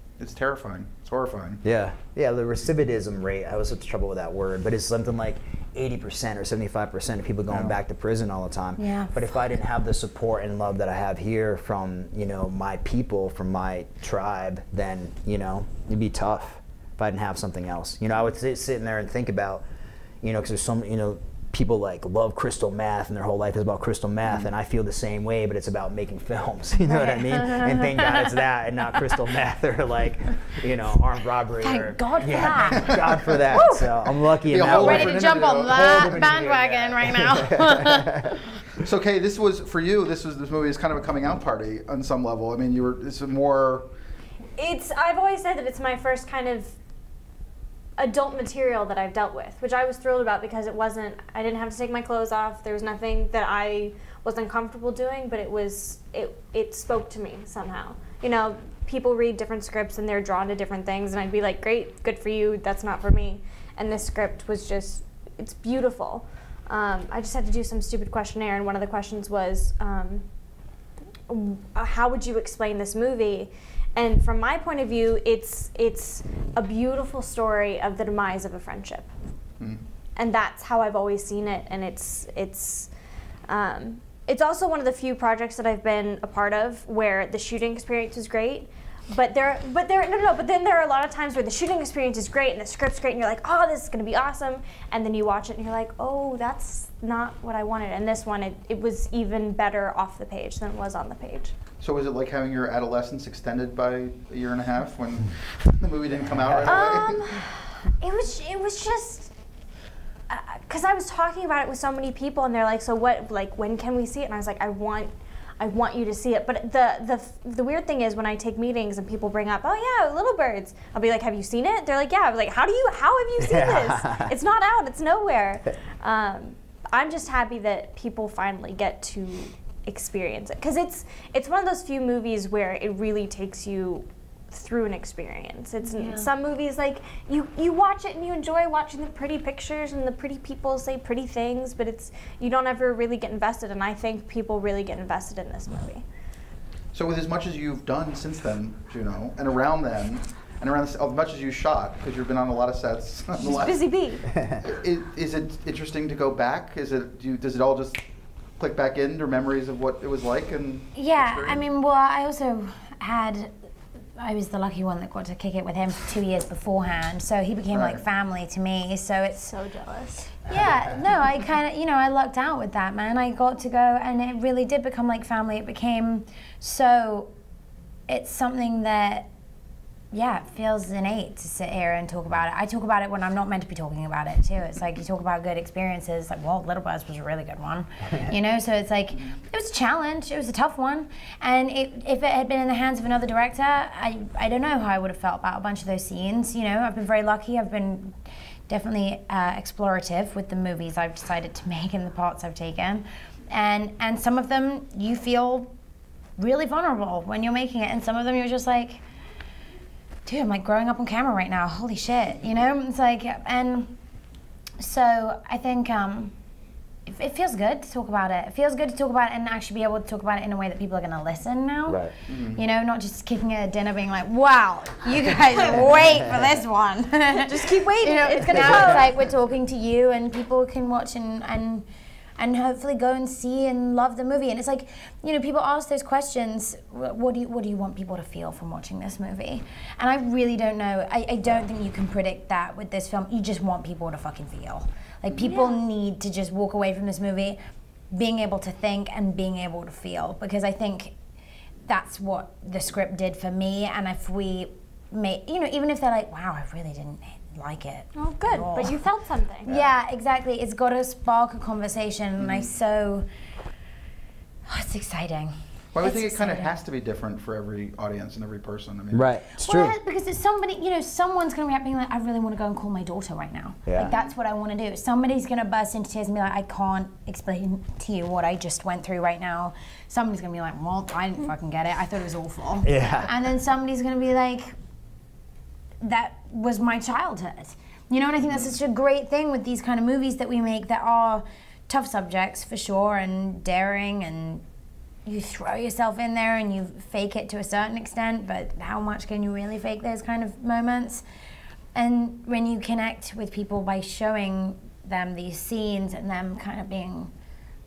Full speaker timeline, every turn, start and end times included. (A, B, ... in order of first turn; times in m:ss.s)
0:00.2-0:01.6 A
0:01.6-0:19.6 B
0:07.5-0:07.8 A
0:08.8-0:09.2 C
0:20.2-0:38.4 B
0:24.3-0:24.5 A
0:26.8-0:28.3 C
0:31.6-0:33.4 C
0:32.8-0:33.0 A
0:33.5-0:33.9 D
0:34.3-0:36.4 A
0:34.7-0:38.4 C
0:38.8-0:43.9 A
0:44.6-0:46.8 D
0:48.0-1:10.2 D
1:11.3-1:19.1 D
1:20.2-1:22.9 D
1:23.5-1:41.5 D
1:41.8-1:47.2 A
1:46.4-1:47.0 B
1:46.6-1:49.3 D
1:50.3-2:26.0 D
2:03.4-2:04.3 B
2:15.8-2:16.3 C
2:26.9-2:33.9 A
2:33.4-2:34.3 D
2:34.3-2:34.6 B
2:34.6-2:38.0 A
2:38.6-2:41.6 A
2:41.0-2:43.5 C
2:44.2-2:49.5 C
2:47.7-2:48.0 A
2:49.5-2:50.3 D
2:50.4-2:57.3 C
2:58.1-2:59.3 C
3:00.1-3:18.2 C
3:18.7-3:25.7 C
3:26.4-3:29.0 C
3:30.3-3:34.0 C
3:34.8-3:36.4 C
3:37.1-3:51.8 C
3:41.9-3:42.1 B
3:42.3-3:42.6 A
3:47.3-3:49.1 D
3:48.5-3:49.0 B
3:52.4-4:07.6 C
4:05.4-4:05.8 D
4:08.1-4:11.2 C
4:11.9-4:19.0 C
4:18.2-4:19.7 D
4:19.7-4:23.3 C
4:19.7-4:19.9 B
4:24.7-4:26.8 C
4:25.9-4:29.3 A
4:29.1-4:30.0 B
4:29.6-4:44.7 C
4:33.9-4:34.1 B
4:34.0-4:34.3 A
4:42.8-4:43.3 B
4:46.0-4:54.6 C
4:55.3-5:01.2 C
5:02.0-5:07.3 C